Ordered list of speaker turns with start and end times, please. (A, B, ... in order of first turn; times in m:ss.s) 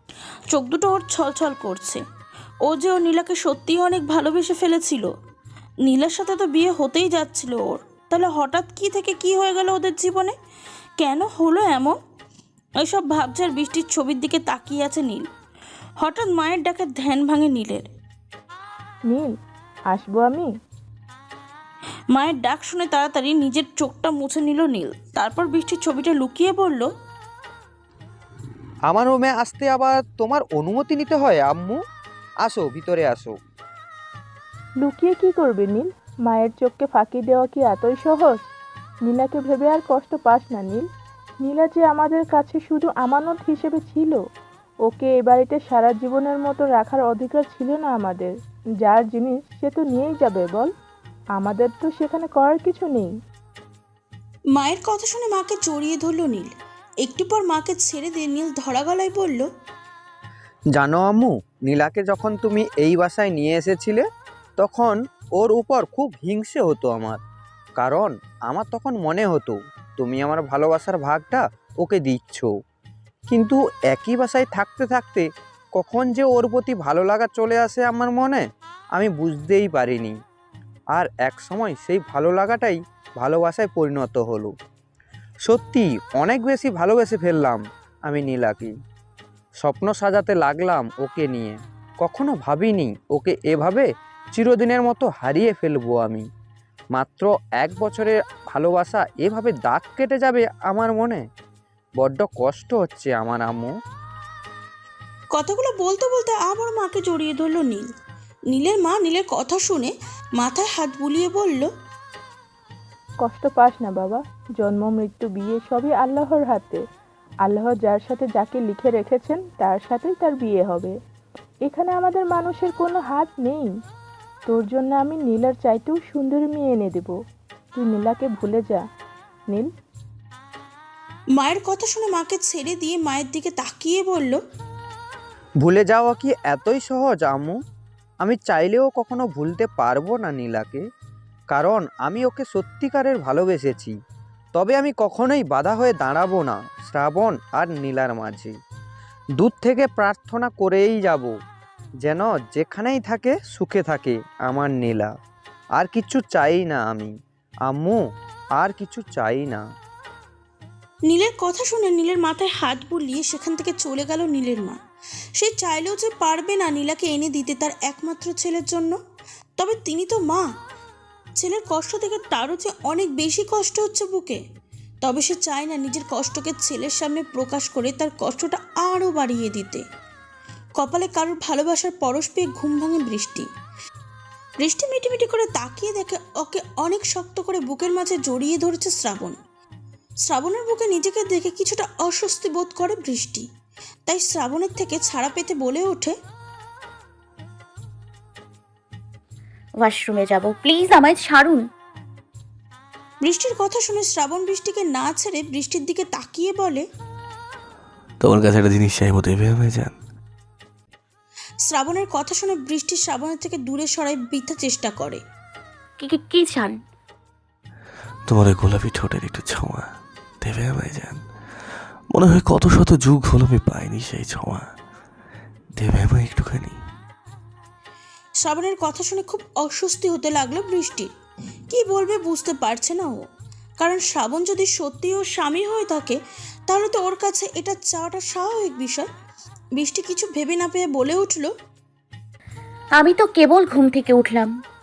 0:00.5-0:02.0 A
0:02.6-0:05.1 A
0:05.8-0:10.3 A
0:11.0-0:12.0 A
0:12.8-0:15.3 A
0:16.0-0:17.9 A
0:19.0-0:19.3 B
0:19.9-0:20.5 B
0:22.1-0:26.9 A
0:28.9-0:31.8 C
0:32.4-0:33.3 C
0:34.8-0:38.4 B
0:39.0-0:40.8 B
0:41.4-0:44.2 B
0:44.8-0:48.3 B
0:48.8-0:50.7 B
0:51.4-0:53.1 B
0:54.5-0:56.5 A
0:57.0-0:59.5 A
1:00.7-1:04.0 C
1:04.6-1:07.2 C
1:07.8-1:12.5 C
1:13.3-1:18.4 C
1:18.9-1:20.2 C
1:20.9-1:24.5 C
1:25.4-1:28.7 C
1:29.6-1:36.2 C
1:36.9-1:41.2 C
1:42.0-1:43.7 C
1:45.3-1:47.9 A
1:48.5-1:51.7 A
1:53.2-1:56.8 B
1:57.4-2:00.9 B
2:01.6-2:03.7 B
2:04.5-2:07.1 B
2:07.7-2:08.8 B
2:11.4-2:14.4 A
2:15.6-2:17.6 C
2:18.2-2:20.8 C
2:21.5-2:23.9 C
2:24.5-2:28.5 C
2:29.4-2:31.3 C
2:32.0-2:35.1 C
2:35.8-2:37.1 C
2:37.6-2:38.0 C
2:38.6-2:39.6 C
2:41.1-2:44.8 A
2:45.4-2:49.0 A
2:49.6-2:50.4 A
2:51.4-2:54.4 A
2:55.0-2:59.8 A
3:00.8-3:03.5 A
3:04.6-3:09.4 A
3:10.2-3:13.4 A
3:14.1-3:16.1 A
3:19.8-3:21.6 D
3:23.2-3:26.8 A
3:28.2-3:29.9 E
3:31.6-3:35.2 A
3:36.0-3:36.8 D
3:38.3-3:39.8 E
3:40.4-3:41.2 E
3:42.1-3:44.7 E
3:45.8-3:46.8 E
3:48.4-3:51.1 A
3:51.7-3:53.2 A
3:53.8-3:59.1 A
3:59.8-4:01.5 A
4:03.0-4:04.5 D